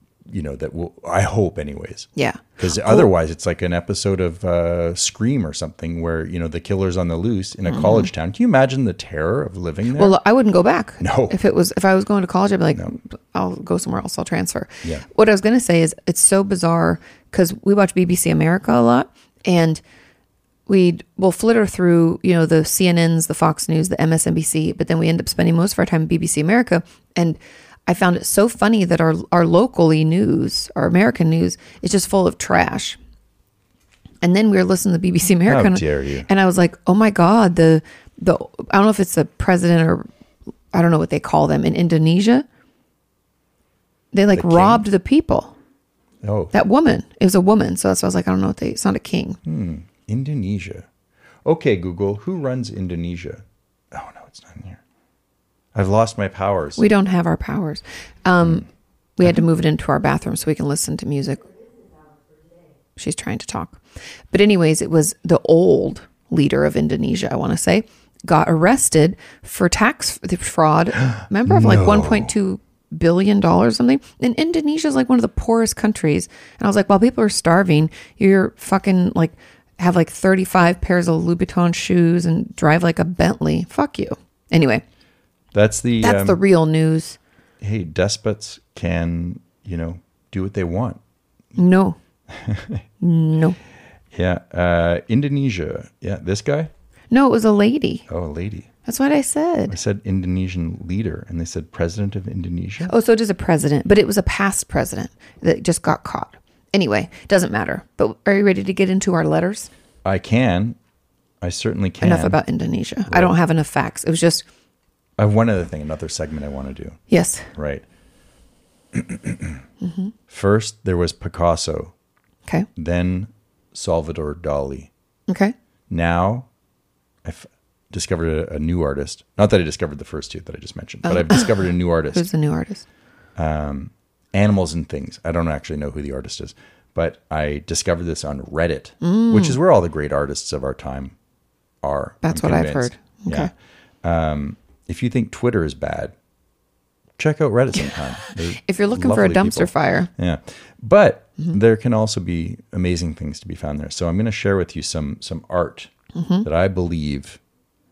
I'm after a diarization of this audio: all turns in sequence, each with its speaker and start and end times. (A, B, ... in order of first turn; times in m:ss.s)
0:00.3-0:10.2 A
0:02.2-0:03.1 B
0:07.7-0:08.1 B
0:09.9-0:19.8 B
0:11.0-0:11.4 A
0:20.7-0:33.0 B
0:34.2-0:40.1 B
0:35.4-0:36.3 A
0:40.7-0:42.4 B
0:44.1-0:45.5 B
0:44.3-0:44.8 A
0:46.2-0:46.5 A
0:46.5-0:49.4 B
0:49.4-0:50.9 A
0:51.4-0:54.8 A
0:55.7-0:56.9 A
0:56.8-1:01.5 B
1:03.0-1:03.8 B
1:04.3-1:24.8 B
1:11.4-1:12.3 A
1:25.5-1:26.4 A
1:26.0-1:27.2 B
1:27.6-1:31.0 A
1:31.6-1:32.0 B
1:32.3-1:32.8 A
1:33.0-1:33.6 B
1:34.1-1:36.7 A
1:37.1-1:38.0 B
1:38.1-1:38.7 A
1:38.8-1:39.8 B
1:39.7-1:42.9 A
1:42.8-1:49.7 B
1:50.0-1:50.8 A
1:51.4-1:52.4 A
1:52.0-1:54.4 B
1:53.1-1:53.3 A
1:55.2-1:57.0 A
1:57.1-1:57.5 B
1:57.5-1:57.8 A
1:58.9-1:59.6 A
1:59.8-2:00.1 B
2:00.3-2:01.9 A
2:02.8-2:04.9 A
2:05.3-2:05.5 B
2:05.9-2:06.5 A
2:07.2-2:12.2 A
2:11.0-2:11.5 B
2:12.1-2:12.8 B
2:13.4-2:21.1 A
2:19.0-2:19.6 B
2:21.8-2:23.5 A
2:22.2-2:23.5 B
2:24.0-2:26.1 A
2:27.2-2:35.9 A
2:28.2-2:30.1 B
2:36.1-2:36.4 B
2:36.4-2:37.4 A